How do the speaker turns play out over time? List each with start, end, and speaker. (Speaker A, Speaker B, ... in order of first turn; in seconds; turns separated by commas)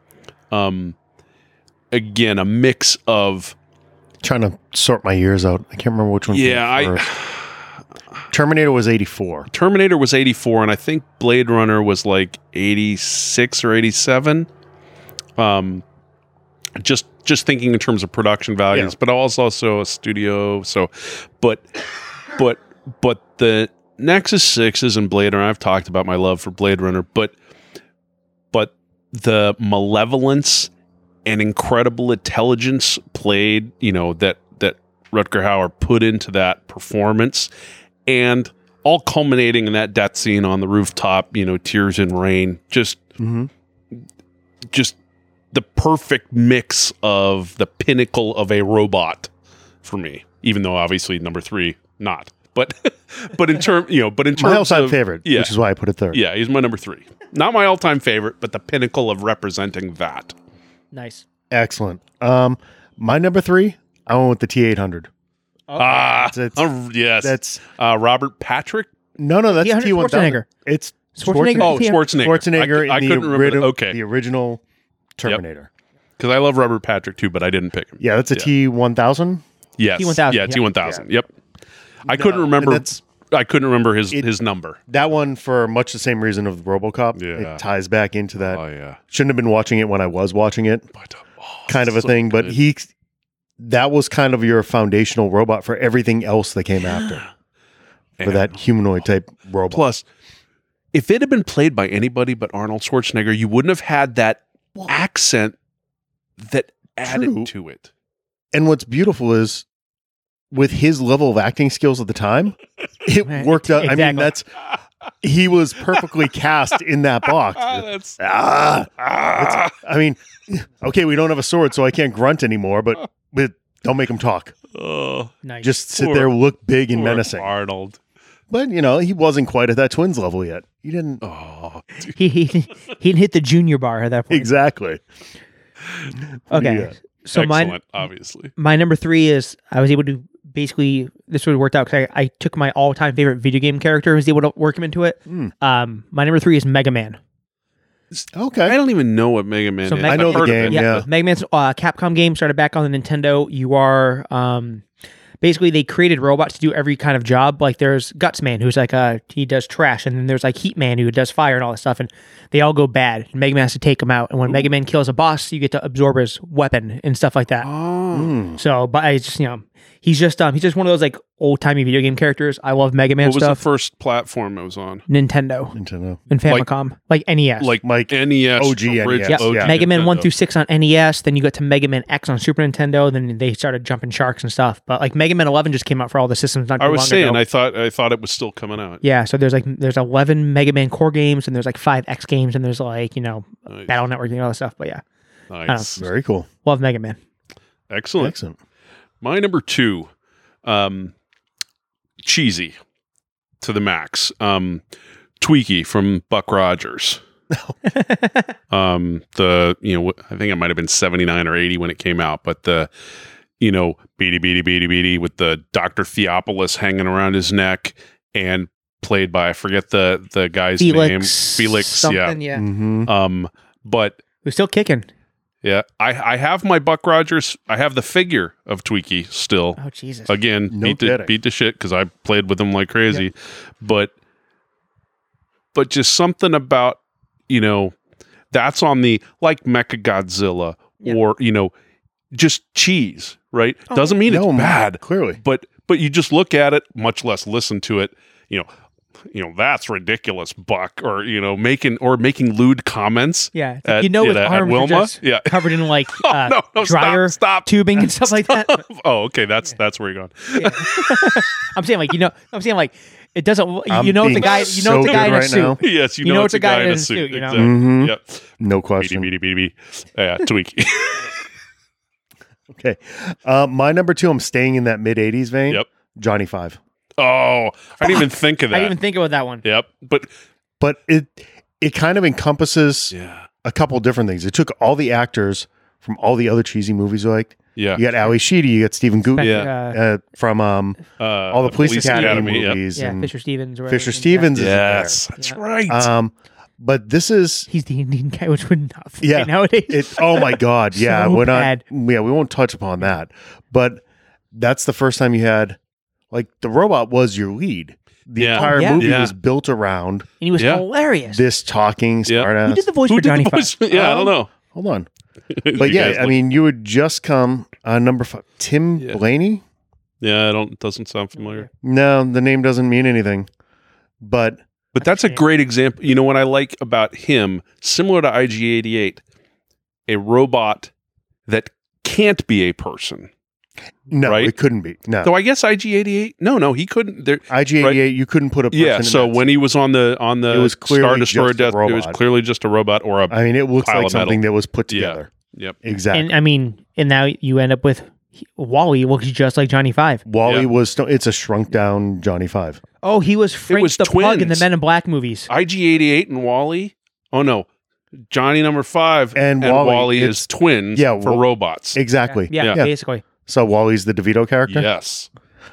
Speaker A: 0.5-0.9, Speaker A: 1.9-3.5, Speaker B: 4.2-7.1, Speaker A: 6.3-7.7, Speaker B: 8.3-9.5, Speaker A: 9.5-14.5, Speaker A: 15.4-15.8, Speaker A: 16.8-21.6, Speaker A: 22.3-27.3, Speaker A: 28.5-30.7, Speaker A: 31.2-37.5, Speaker A: 38.1-43.0, Speaker B: 43.2-43.5, Speaker A: 45.5-49.3, Speaker A: 49.8-55.5, Speaker B: 54.3-56.2, Speaker A: 56.1-60.3, Speaker C: 60.9-61.2, Speaker B: 61.5-65.1, Speaker C: 65.7-66.2, Speaker A: 65.8-68.9, Speaker B: 66.2-66.7, Speaker B: 67.2-67.6, Speaker B: 69.2-74.6, Speaker C: 69.6-70.5, Speaker C: 71.2-72.0, Speaker A: 71.6-74.0, Speaker B: 75.2-75.7, Speaker A: 76.2-78.5, Speaker B: 78.0-79.4, Speaker A: 79.8-81.3, Speaker C: 80.0-80.7, Speaker A: 82.0-84.8, Speaker B: 82.1-83.0, Speaker B: 84.9-90.8, Speaker A: 87.1-87.6, Speaker A: 88.4-89.0, Speaker A: 91.0-92.6, Speaker B: 91.7-92.9, Speaker B: 93.6-97.2, Speaker A: 96.8-97.3, Speaker A: 98.2-98.6, Speaker B: 98.2-99.8, Speaker A: 99.7-100.0, Speaker A: 100.9-105.6, Speaker A: 106.4-107.9, Speaker B: 107.0-107.5, Speaker B: 108.5-109.6, Speaker B: 110.5-114.5, Speaker C: 113.2-114.3, Speaker B: 115.2-124.5, Speaker A: 117.3-118.2, Speaker A: 119.0-119.8, Speaker A: 124.7-125.3, Speaker C: 125.4-125.7, Speaker B: 125.6-127.5, Speaker A: 126.0-126.3, Speaker A: 126.9-128.0, Speaker B: 128.5-131.2, Speaker A: 131.2-132.1, Speaker C: 132.1-134.5, Speaker B: 134.3-135.0, Speaker B: 136.5-136.9, Speaker C: 136.5-137.8, Speaker A: 137.3-138.5, Speaker C: 138.6-147.2, Speaker B: 145.3-145.5, Speaker B: 148.3-148.8, Speaker A: 148.6-151.1, Speaker C: 149.8-154.8, Speaker B: 150.1-151.1, Speaker C: 155.4-167.7, Speaker A: 167.6-168.4, Speaker B: 168.1-168.6, Speaker C: 168.6-173.6, Speaker A: 173.2-175.0, Speaker C: 175.1-175.7, Speaker B: 175.7-176.2, Speaker C: 176.3-177.7, Speaker A: 177.6-180.3, Speaker B: 177.8-179.7, Speaker C: 179.3-187.4, Speaker A: 186.8-189.0, Speaker C: 189.0-195.0, Speaker A: 193.7-193.9, Speaker A: 195.5-196.1, Speaker C: 195.7-196.0, Speaker B: 196.0-196.5, Speaker C: 196.6-197.2, Speaker A: 197.9-198.3, Speaker B: 198.2-198.6, Speaker A: 199.2-200.1, Speaker A: 200.6-201.1, Speaker A: 202.2-202.7, Speaker A: 203.6-204.8, Speaker A: 205.4-207.2, Speaker C: 207.9-208.5, Speaker A: 208.7-212.9, Speaker A: 213.6-222.4, Speaker C: 220.8-222.6, Speaker B: 222.5-223.1, Speaker A: 223.1-224.2, Speaker C: 224.4-225.1, Speaker A: 225.6-234.1, Speaker C: 229.8-230.3, Speaker B: 230.7-231.3, Speaker A: 235.7-237.9, Speaker A: 238.5-241.7, Speaker A: 242.3-248.7, Speaker C: 243.9-244.2, Speaker B: 244.2-245.4, Speaker A: 249.3-261.5, Speaker C: 253.5-258.8, Speaker C: 260.5-267.7, Speaker B: 263.9-265.8, Speaker A: 264.4-268.4, Speaker B: 267.5-269.3, Speaker A: 269.0-271.3, Speaker B: 272.7-276.8, Speaker A: 277.2-278.9, Speaker C: 278.0-279.6, Speaker A: 279.6-280.3, Speaker B: 280.8-293.3, Speaker A: 283.1-283.5, Speaker A: 287.8-288.0, Speaker C: 289.3-290.0, Speaker A: 289.4-289.7, Speaker A: 291.2-292.8, Speaker C: 291.8-294.5, Speaker B: 293.9-295.2, Speaker A: 294.5-296.1, Speaker B: 295.9-297.7, Speaker C: 297.7-301.8, Speaker B: 299.2-304.0, Speaker B: 304.5-305.8, Speaker B: 306.3-310.3, Speaker A: 308.4-309.3, Speaker C: 308.6-309.1, Speaker C: 310.4-311.4, Speaker A: 310.6-310.8, Speaker B: 311.3-312.9, Speaker C: 312.6-313.7, Speaker A: 313.0-314.5, Speaker B: 313.9-315.1, Speaker A: 315.5-316.4, Speaker B: 315.7-319.6, Speaker A: 320.2-321.6, Speaker C: 321.4-321.6, Speaker B: 321.8-323.5, Speaker B: 324.2-324.6, Speaker A: 324.9-329.2, Speaker C: 325.0-325.4, Speaker A: 330.1-330.9, Speaker A: 331.5-333.3, Speaker B: 334.1-335.3, Speaker A: 334.2-334.5, Speaker A: 335.2-338.0, Speaker B: 337.5-339.5, Speaker A: 338.7-345.8, Speaker B: 340.5-342.2, Speaker B: 343.3-345.3, Speaker B: 345.8-346.3, Speaker C: 346.1-350.2, Speaker B: 350.2-352.8, Speaker C: 353.0-355.5, Speaker A: 353.7-354.7, Speaker A: 355.5-357.7, Speaker A: 358.3-362.0, Speaker B: 359.3-361.4, Speaker B: 361.9-362.9, Speaker C: 362.2-363.2, Speaker A: 362.6-362.8, Speaker B: 363.4-364.9, Speaker A: 364.7-365.3